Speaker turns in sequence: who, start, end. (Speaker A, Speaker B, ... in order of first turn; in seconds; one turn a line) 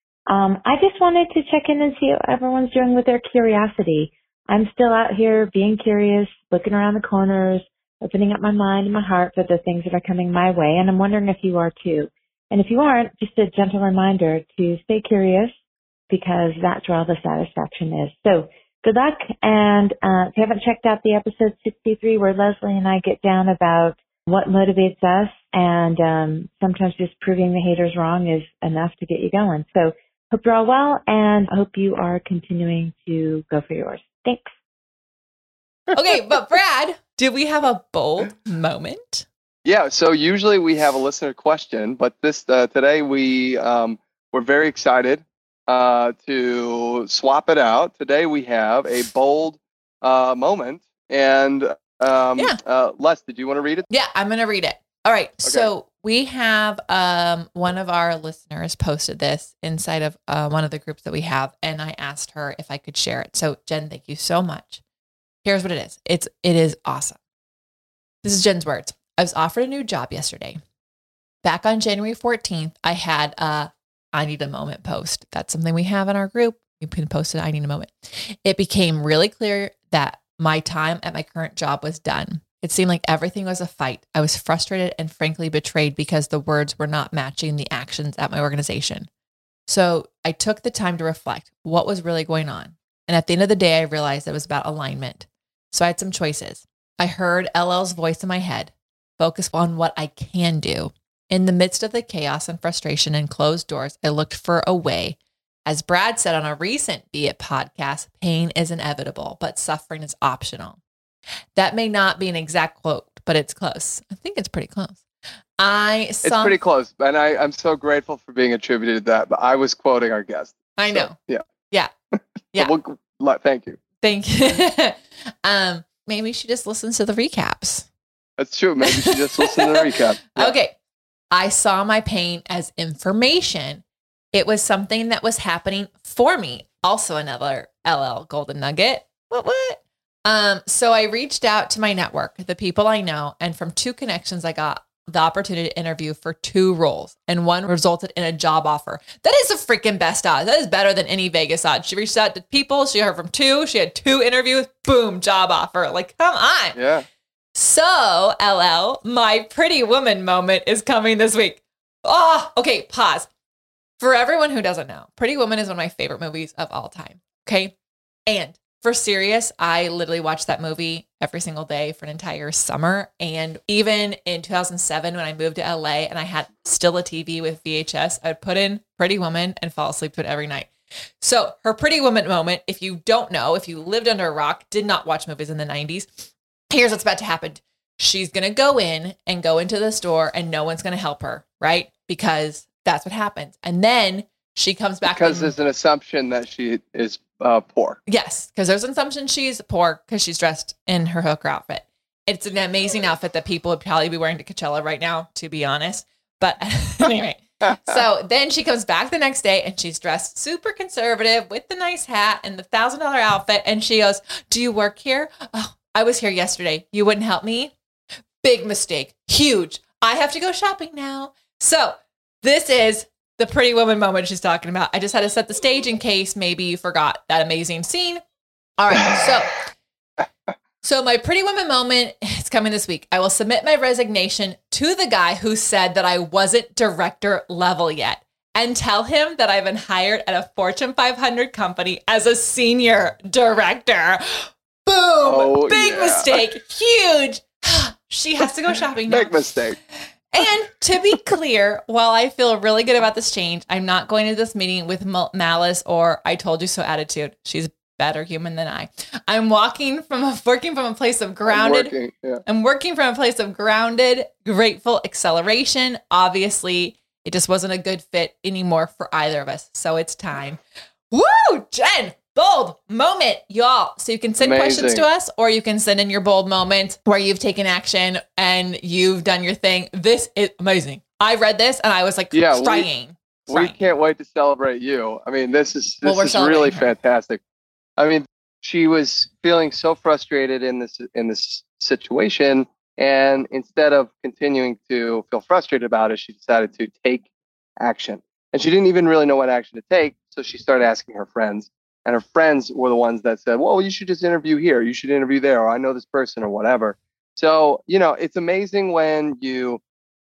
Speaker A: 0.3-15.5
Speaker A: 16.1-34.5
Speaker B: 35.9-39.2
Speaker C: 39.6-53.9
Speaker B: 53.9-64.8
Speaker C: 55.4-55.7
Speaker B: 65.4-67.2
Speaker B: 68.2-70.6
Speaker B: 71.4-89.1
Speaker B: 89.7-110.8
Speaker B: 111.5-115.0
Speaker B: 115.6-116.6
Speaker C: 116.2-121.5
Speaker B: 120.8-121.2
Speaker C: 122.2-123.8
Speaker B: 124.0-127.9
Speaker C: 128.4-130.5
Speaker B: 128.8-130.7
Speaker B: 131.3-156.8
Speaker C: 156.7-157.1
Speaker B: 157.5-163.3
Speaker B: 164.0-167.7
Speaker B: 168.3-180.7
Speaker B: 181.2-195.5
Speaker C: 195.0-198.0
Speaker B: 198.1-217.7
Speaker B: 218.4-228.2
Speaker B: 228.8-229.6
Speaker B: 230.8-249.3
Speaker C: 245.2-246.4
Speaker C: 249.1-249.8
Speaker B: 250.3-261.9
Speaker C: 261.5-262.4
Speaker B: 262.4-270.6
Speaker B: 271.1-283.8
Speaker C: 274.4-275.0
Speaker C: 282.3-282.9
Speaker C: 283.5-287.4
Speaker B: 286.0-286.9
Speaker C: 288.0-297.2
Speaker C: 297.8-309.8